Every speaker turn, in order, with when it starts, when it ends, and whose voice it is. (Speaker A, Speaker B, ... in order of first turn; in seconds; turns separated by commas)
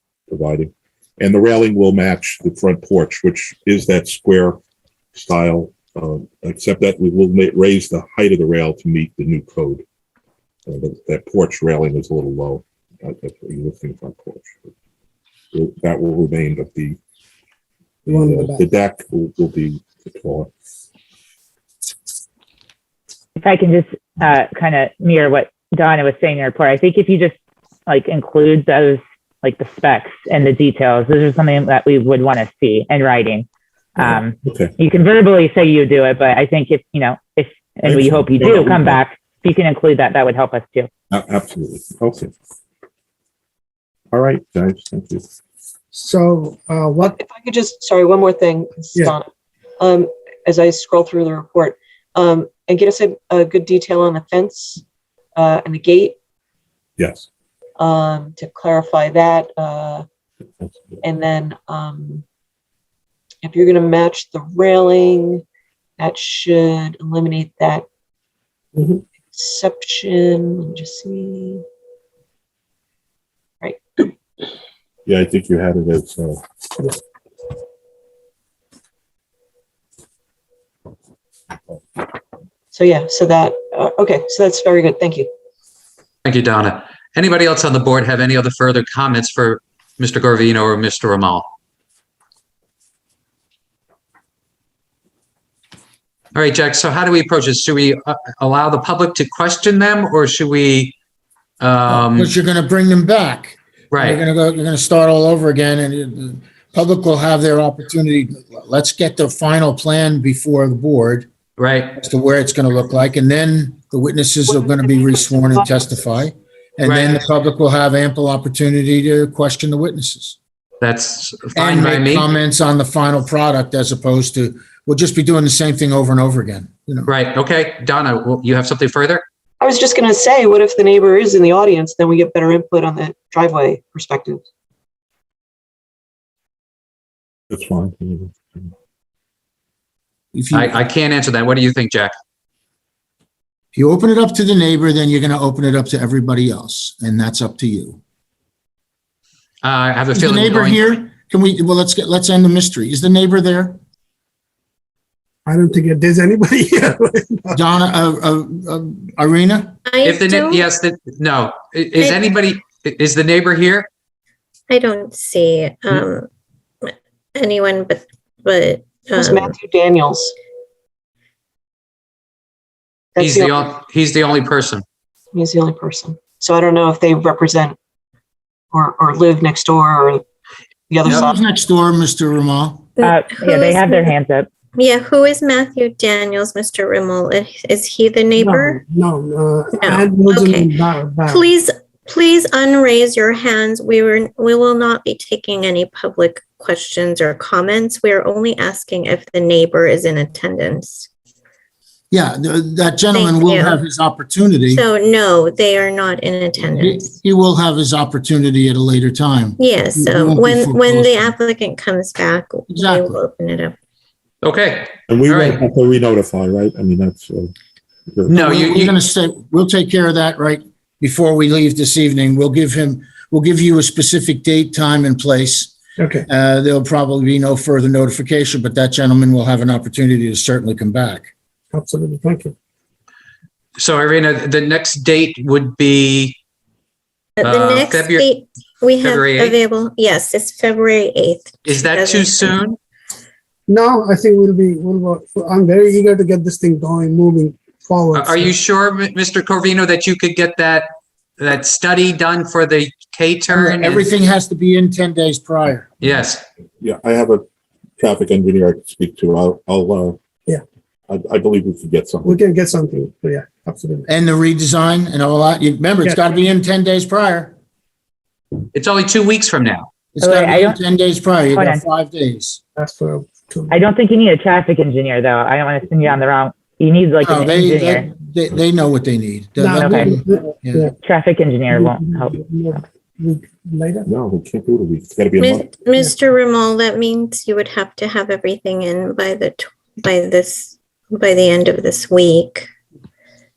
Speaker A: 0.3-4.6, Speaker A: 5.1-9.8, Speaker A: 10.7-14.7, Speaker A: 15.5-17.0, Speaker B: 18.1-18.7, Speaker A: 18.1-20.5, Speaker C: 23.4-27.4, Speaker C: 27.9-40.9, Speaker A: 34.0-34.7, Speaker A: 37.9-39.0, Speaker A: 41.1-42.3, Speaker A: 44.1-45.2, Speaker B: 45.9-47.1, Speaker D: 47.1-54.8, Speaker D: 55.4-56.2, Speaker A: 57.0-57.3, Speaker D: 57.8-60.1, Speaker A: 60.6-61.0, Speaker D: 61.0-62.2, Speaker D: 63.4-65.4, Speaker D: 66.0-67.8, Speaker B: 68.8-69.0, Speaker D: 69.3-71.6, Speaker D: 73.6-74.1, Speaker A: 75.1-76.4, Speaker D: 82.7-85.3, Speaker E: 86.2-91.5, Speaker E: 96.3-101.0, Speaker E: 101.6-102.3, Speaker F: 101.9-111.3, Speaker E: 103.9-104.2, Speaker E: 111.6-112.0, Speaker F: 112.0-120.4, Speaker D: 114.5-116.2, Speaker E: 116.8-117.2, Speaker E: 120.8-122.3, Speaker F: 121.5-127.1, Speaker E: 127.1-129.2, Speaker D: 129.6-134.5, Speaker A: 137.5-138.7, Speaker F: 140.3-140.8, Speaker E: 140.5-142.1, Speaker F: 143.7-148.0, Speaker E: 149.6-151.0, Speaker F: 150.1-153.8, Speaker B: 155.5-157.6, Speaker F: 157.5-159.8, Speaker G: 159.9-160.7, Speaker E: 160.0-163.9, Speaker G: 164.7-166.3, Speaker G: 166.8-169.5, Speaker D: 169.2-170.3, Speaker D: 173.2-173.7, Speaker E: 173.2-174.8, Speaker D: 175.3-177.8, Speaker D: 178.7-180.2, Speaker D: 180.9-181.4, Speaker F: 181.0-182.9, Speaker G: 183.0-184.1, Speaker C: 183.0-184.5, Speaker G: 184.8-188.8, Speaker B: 188.4-191.5, Speaker G: 189.8-190.7, Speaker G: 191.3-201.1, Speaker F: 202.1-204.8, Speaker G: 203.1-203.8, Speaker G: 204.7-207.1, Speaker F: 206.7-211.3, Speaker G: 209.6-213.8, Speaker F: 212.7-213.2, Speaker E: 214.4-215.6, Speaker A: 215.1-217.5, Speaker A: 218.1-218.4, Speaker E: 218.3-219.0, Speaker F: 218.3-225.7, Speaker B: 226.0-226.3, Speaker F: 226.3-231.3, Speaker B: 231.7-232.5, Speaker E: 233.8-236.4, Speaker G: 237.4-242.6, Speaker E: 237.4-238.3, Speaker E: 239.0-239.6, Speaker E: 241.7-242.8, Speaker B: 243.7-248.6, Speaker E: 248.1-254.1, Speaker F: 253.5-255.9, Speaker E: 256.0-256.4, Speaker A: 256.8-257.4, Speaker A: 258.0-260.2, Speaker A: 261.1-262.5, Speaker B: 262.2-264.1, Speaker F: 264.1-267.6, Speaker E: 268.7-269.9, Speaker F: 270.1-272.6, Speaker C: 270.2-270.8, Speaker C: 271.5-271.8, Speaker B: 272.8-273.8, Speaker C: 273.7-278.1, Speaker F: 277.2-280.9, Speaker B: 279.6-280.9, Speaker C: 279.7-280.1, Speaker C: 281.0-282.4, Speaker B: 281.7-284.1, Speaker A: 284.1-285.8, Speaker G: 285.4-292.7